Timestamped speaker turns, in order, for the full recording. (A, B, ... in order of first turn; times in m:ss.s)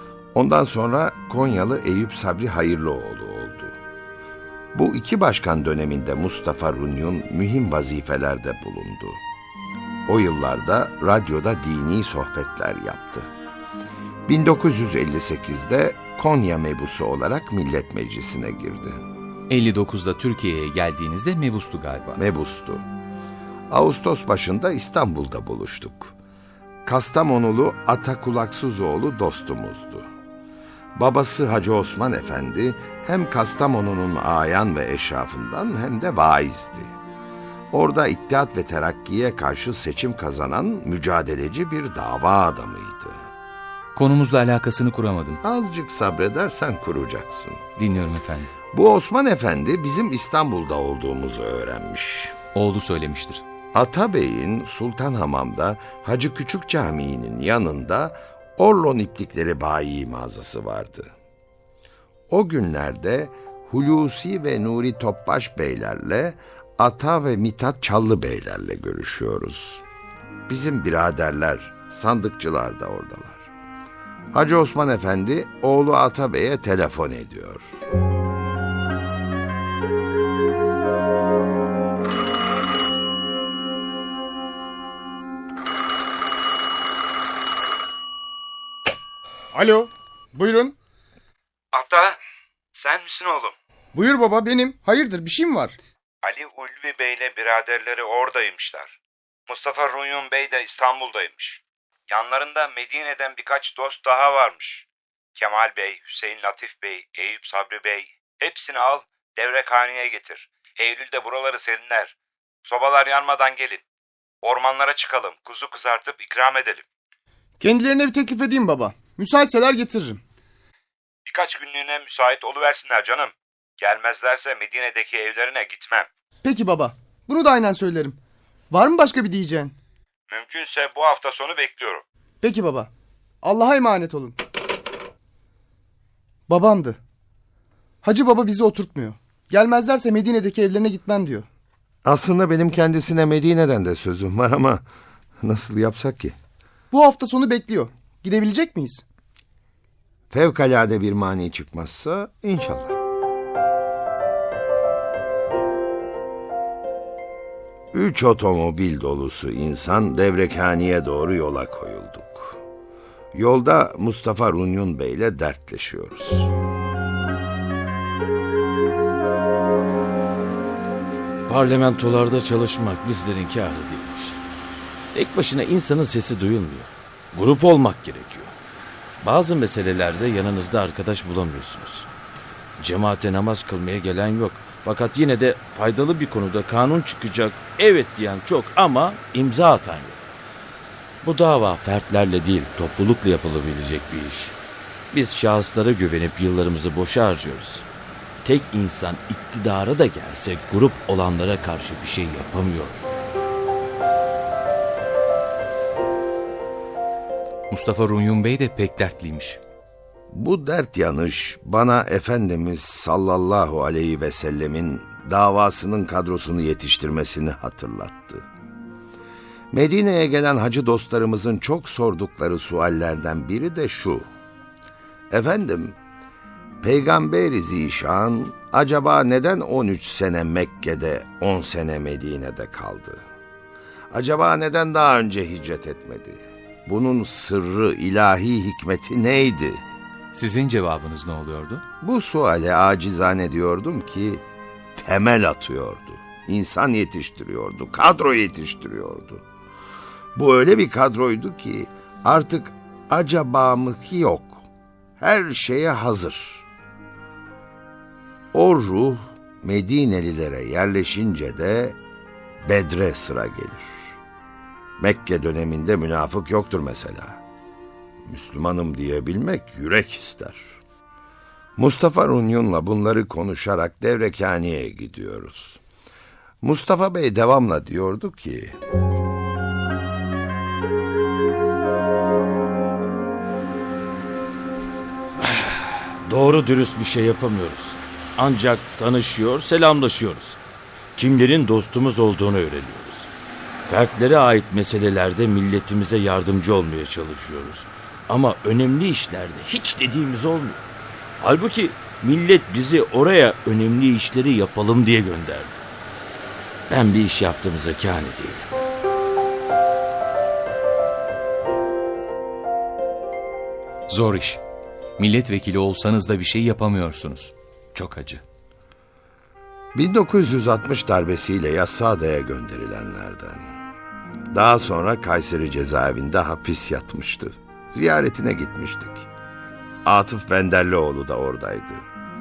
0:00.4-0:03.8 A
0:04.7-0:09.2 A
0:10.1-0:13.3 A
0:14.3-0:19.0 A
0:19.5-0:22.2 B
0:22.2-0:22.8 A
0:23.7-0:26.1 A
0:26.9-0:30.1 A
0:31.0-0:36.9 A
0:37.7-0:43.2 A
0:44.0-0:45.4 B
0:45.4-0:47.6 A
0:47.8-0:48.5 B
0:48.7-0:52.4 A
0:52.6-0:53.4 B
0:53.7-1:01.1 A
1:02.3-1:09.8 A
1:10.5-1:13.5 A
1:14.3-1:17.7 A
1:29.5-1:30.8 C
1:31.8-1:32.0 D
1:32.8-1:33.5 D
1:33.9-1:35.8 C
1:36.2-1:38.9 D
1:39.5-1:41.6 D
1:42.1-1:44.8 D
1:45.4-1:52.1 D
1:52.7-1:53.8 D
1:54.4-1:56.8 D
1:57.6-2:00.2 C
2:01.3-2:03.3 D
2:03.8-2:06.0 D
2:06.4-2:08.2 C
2:08.7-2:09.7 C
2:10.3-2:12.0 D
2:12.4-2:12.9 C
2:13.4-2:14.4 C
2:16.5-2:17.0 C
2:18.0-2:21.5 C
2:22.0-2:24.8 A
2:25.4-2:26.4 A
2:26.9-2:29.0 C
2:30.3-2:33.0 A
2:37.9-2:42.6 A
2:43.3-2:46.5 A
2:51.5-2:54.4 E
2:55.1-2:58.5 E
2:59.2-3:02.1 E
3:02.8-3:10.2 E
3:11.2-3:14.6 E
3:15.1-3:17.8 E
3:18.4-3:23.0 E
3:27.7-3:29.6 B
3:30.3-3:38.5 A
3:39.7-3:44.3 A
3:45.3-3:46.0 A
3:46.8-3:53.2 A
3:54.1-3:59.8 A
4:00.3-4:01.8 B
4:02.0-4:04.4 A
4:05.0-4:09.4 A
4:10.4-4:14.6 A
4:15.2-4:16.6 A
4:18.5-4:22.0 A
4:22.6-4:24.0 A
4:25.0-4:27.4 A
4:28.2-4:30.8 A
4:31.8-4:35.8 A
4:36.6-4:38.8 A
4:45.4-4:50.6 E
4:51.2-4:53.3 E
4:53.9-5:00.8 E
5:01.4-5:05.8 E
5:06.9-5:08.7 E
5:14.1-5:14.6 B
5:15.2-5:18.4 B
5:20.0-5:23.7 A
5:24.5-5:29.3 A
5:30.0-5:32.0 A